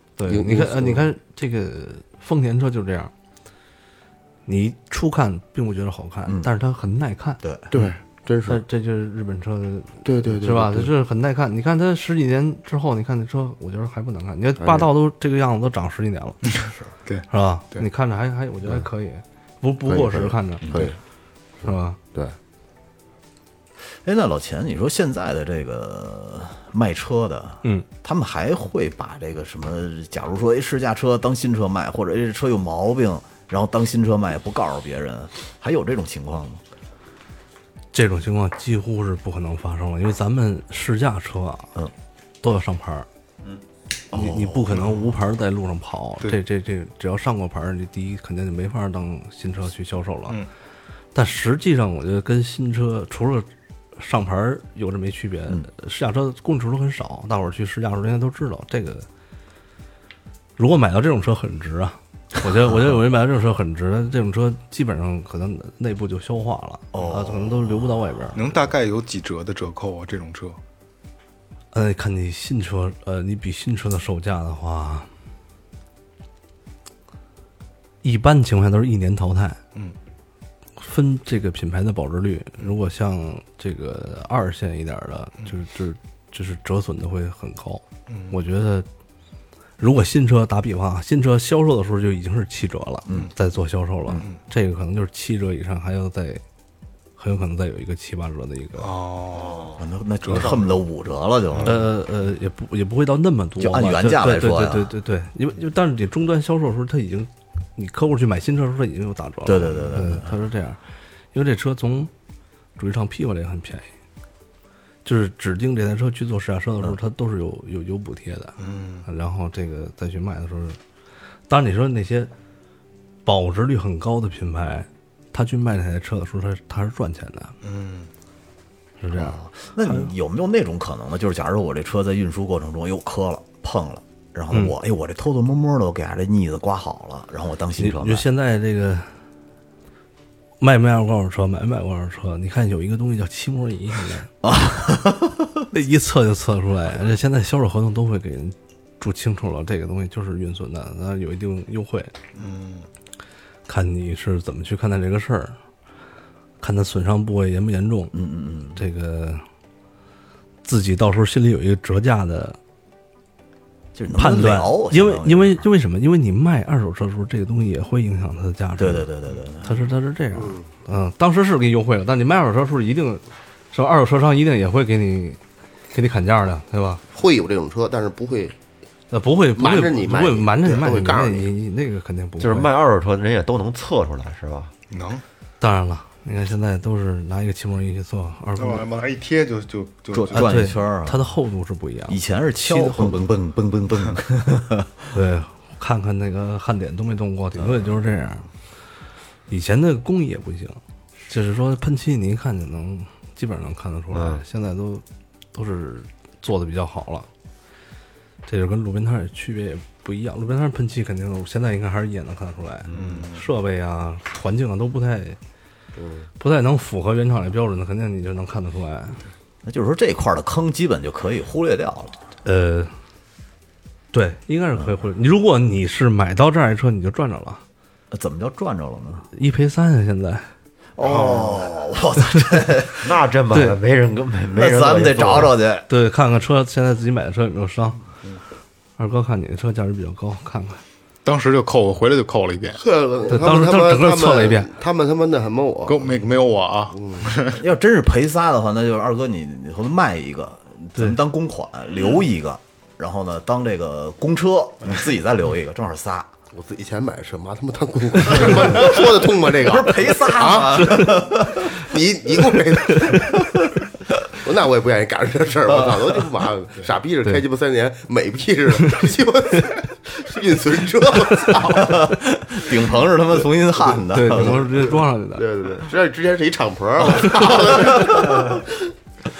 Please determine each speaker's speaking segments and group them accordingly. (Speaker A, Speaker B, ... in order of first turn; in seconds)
Speaker A: 0.2-3.1, 4.5-7.4, 8.4-16.4, 17.3-20.9, 21.6-22.0, 37.9-41.7, 42.4-43.1, 44.1-50.4, 51.1-59.0, 60.6-68.4, 71.7-75.1, 78.0-79.6, 80.8-88.9, 89.8-96.4, 97.2-98.9, 101.6-110.8, 111.3-112.1, 112.8-113.9, 115.0-120.8, 121.5-122.3, 123.2-127.5, 129.0-130.1, 137.8-139.1, 140.6-144.3, 145.7-152.1, 153.7-155.6, 156.6-158.2, 158.7-159.4, 160.6-162.6, 164.2-169.1, 169.6-175.4, 175.9-177.0, 179.1-182.7, 185.6-188.9, 190.3-193.2, 195.1-198.5, 199.5-207.3, 208.5-215.4, 216.4-219.2, 222.4-222.9, 224.1-227.6, 229.3-230.5, 233.5-233.8, 235.9-238.0, 239.0-240.8, 243.3-244.7, 274.1-275.4, 277.2-277.5
Speaker B: 0.3-1.1, 7.7-8.6, 10.0-10.9, 14.6-14.9, 19.9-20.9, 21.6-22.4, 170.4-170.7, 177.1-178.5, 179.6-181.5, 216.0-216.3, 242.8-246.0, 246.9-247.3, 256.5-263.4, 264.4-272.0, 274.9-278.7
Speaker C: 7.4-7.7, 16.6-16.9, 20.6-20.9, 24.0-36.6, 44.1-44.7, 66.9-68.1, 99.6-101.8, 103.6-104.9, 109.5-110.3, 129.1-138.2, 144.4-145.6, 158.1-158.8, 163.9-165.6, 168.8-169.7, 190.1-191.2, 192.1-195.1, 212.9-213.2, 219.6-222.2, 228.1-229.3, 230.9-233.1, 234.5-235.9, 247.6-256.3, 258.3-261.8, 263.0-263.5, 271.7-274.8, 277.8-278.4
Speaker D: 16.5-17.8, 68.3-70.6, 88.1-88.4, 98.8-100.8, 101.5-101.8, 118.6-119.1, 127.6-128.1, 152.3-152.9, 184.9-185.2, 188.6-190.7, 212.9-213.4, 231.0-231.7, 241.2-242.8, 245.8-247.6
Speaker E: 182.4-184.7, 204.1-204.4, 233.0-235.6